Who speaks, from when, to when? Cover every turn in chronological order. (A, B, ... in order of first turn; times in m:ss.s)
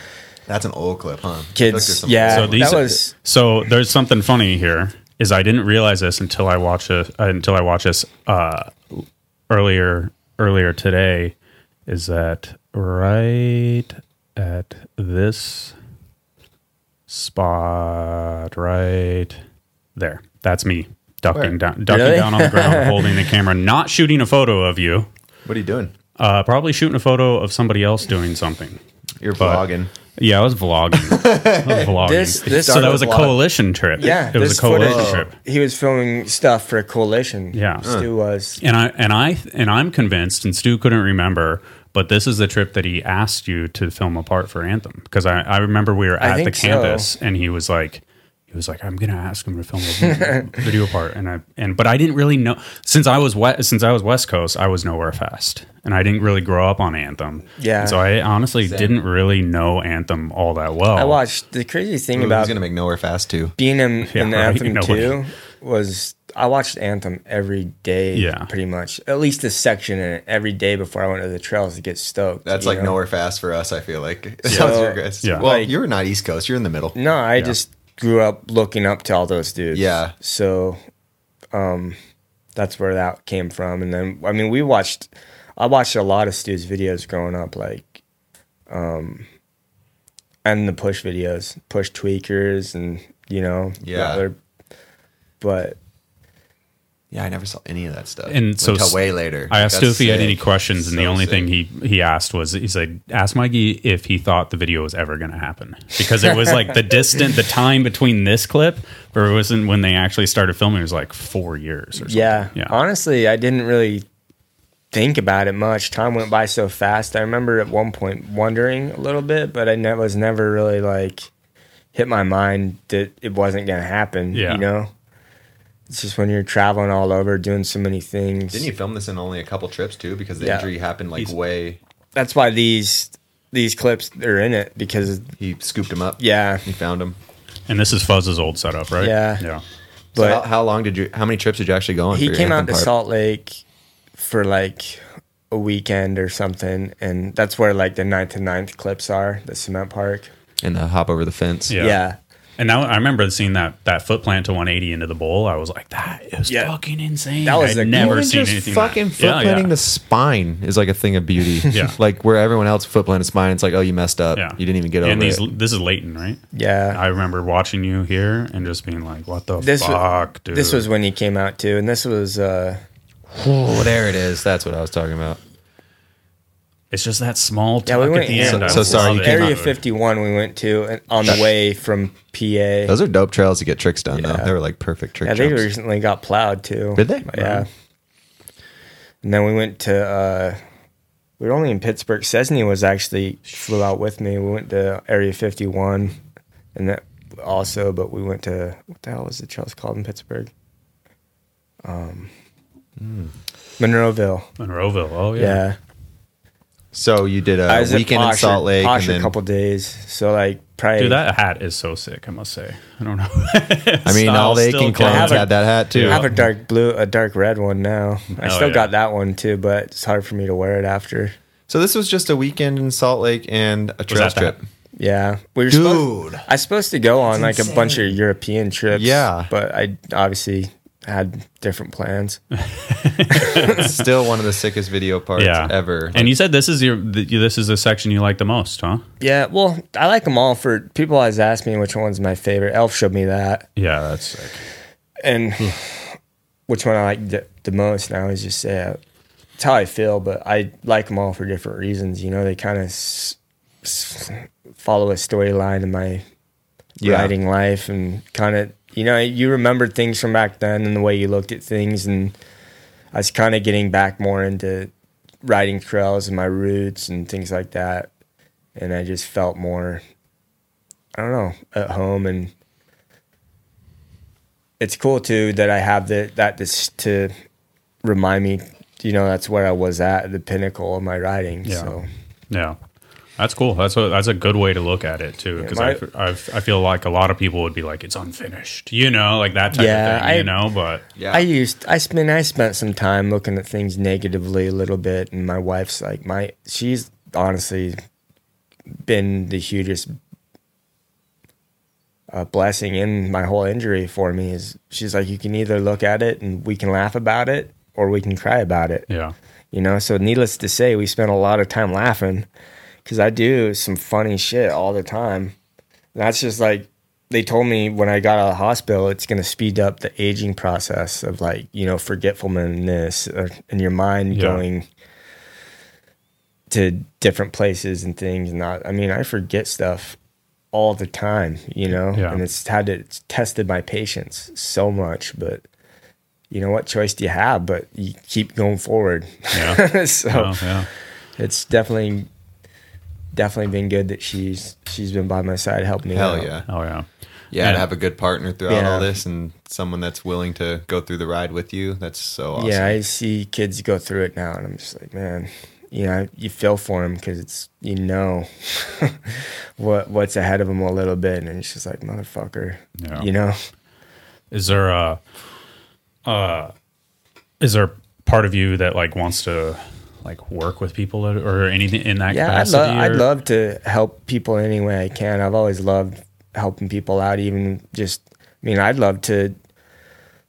0:00.5-0:02.8 A
0:01.6-0:03.1 B
0:02.3-0:11.3 C
0:11.9-0:15.8 C
0:17.1-0:19.4 C
0:20.0-0:25.1 C
0:21.9-0:23.3 B
0:25.4-0:25.9 A
0:26.2-0:28.8 C
0:29.2-0:29.9 A
0:29.4-0:29.6 C
0:30.2-0:35.3 C
0:30.9-0:33.4 A
0:32.0-0:33.1 B
0:34.0-0:38.6 B
0:34.7-0:35.3 A
0:37.5-0:37.9 C
0:37.8-0:38.1 A
0:38.6-1:01.2 C
0:46.2-0:47.1 B
0:50.0-0:50.6 B
0:57.6-0:58.0 B
0:58.6-0:59.0 A
1:01.0-1:02.6 B
1:02.2-1:03.5 A
1:03.6-1:13.0 B
1:04.1-1:05.2 C
1:08.2-1:08.5 C
1:12.4-1:17.0 A
1:14.5-1:15.5 C
1:14.5-1:15.7 B
1:17.0-1:20.8 B
1:19.7-1:20.2 A
1:21.5-1:22.0 B
1:22.6-1:28.0 B
1:28.7-1:29.2 B
1:30.4-1:34.4 B
1:33.8-1:34.2 A
1:35.4-1:35.8 B
1:37.1-1:41.5 A
1:38.3-1:52.8 C
1:52.0-1:54.0 B
1:54.9-2:01.3 B
2:01.9-2:04.9 B
2:04.3-2:04.7 C
2:05.9-2:08.7 B
2:08.5-2:11.8 A
2:10.4-2:10.7 B
2:12.2-2:15.4 B
2:15.4-2:17.2 A
2:16.2-2:16.6 B
2:17.7-2:19.6 C
2:19.0-2:19.4 B
2:20.2-2:20.4 B
2:20.2-2:22.9 A
2:22.1-2:23.6 B
2:24.2-2:30.3 B
2:30.6-2:31.8 A
2:31.7-2:32.0 C
2:31.8-2:32.2 B
2:32.6-2:39.7 C
2:36.5-2:36.7 B
2:37.4-2:38.3 B
2:37.9-2:45.4 A
2:41.7-2:42.0 C
2:44.4-2:46.4 C
2:46.5-2:47.0 B
2:46.9-2:50.9 C
2:49.6-2:52.8 B
2:53.4-2:55.4 A
2:56.9-2:59.8 C
2:57.9-3:02.9 B
2:58.3-2:59.6 A
3:02.9-3:05.7 A
3:04.1-3:04.5 B
3:05.2-3:07.7 B
3:07.0-3:07.3 A
3:07.4-3:07.6 C
3:09.2-3:10.6 B
3:11.4-3:16.2 B
3:16.8-3:20.5 B
3:21.8-3:22.3 B
3:23.0-3:23.3 A
3:23.8-3:24.5 B
3:24.6-3:25.6 C
3:25.4-3:25.8 B
3:26.9-3:29.3 A
3:27.7-3:31.2 B
3:31.0-3:36.3 C
3:34.0-3:36.3 A
3:35.0-3:35.5 B
3:36.0-3:41.4 B
3:38.4-3:38.9 C
3:41.7-3:44.6 A
3:44.1-3:44.6 C
3:45.0-3:52.4 B
3:45.7-3:46.4 A
3:47.3-3:48.1 A
3:48.9-3:49.5 A
3:52.7-3:54.0 C
3:53.3-3:53.8 B
3:53.6-3:56.3 A
3:55.4-3:59.0 C
3:59.2-4:03.7 B
4:03.8-4:04.6 C
4:05.2-4:06.2 B
4:06.7-4:09.0 B
4:09.6-4:16.2 B
4:17.0-4:17.3 A
4:17.0-4:22.4 B
4:23.1-4:24.9 B
4:25.4-4:28.1 B
4:28.8-4:30.0 B
4:31.2-4:32.5 B
4:34.8-4:37.3 B
4:38.0-4:42.1 B
4:41.6-4:42.0 C
4:42.5-4:42.8 C
4:43.4-4:51.0 C
4:45.6-4:46.0 B
4:49.7-4:50.5 B
4:51.2-4:51.5 A
4:51.3-4:58.0 B
4:59.0-5:00.2 B
5:02.3-5:09.1 B
5:09.1-5:09.4 C
5:09.7-5:12.5 B
5:13.0-5:15.6 B
5:16.2-5:24.8 B
5:24.3-5:24.6 C
5:26.7-5:30.2 B
5:30.7-5:35.6 B
5:32.1-5:32.4 C
5:36.5-5:40.7 B
5:39.5-5:40.9 C
5:41.4-5:42.3 B
5:43.3-5:46.5 B
5:46.1-5:46.7 A
5:46.7-5:47.9 C
5:47.5-5:53.0 A
5:48.7-5:49.1 B
5:52.6-6:03.6 B
6:03.0-6:03.3 C
6:04.5-6:05.2 C
6:06.3-6:06.7 C
6:07.6-6:13.3 C
6:12.3-6:19.6 B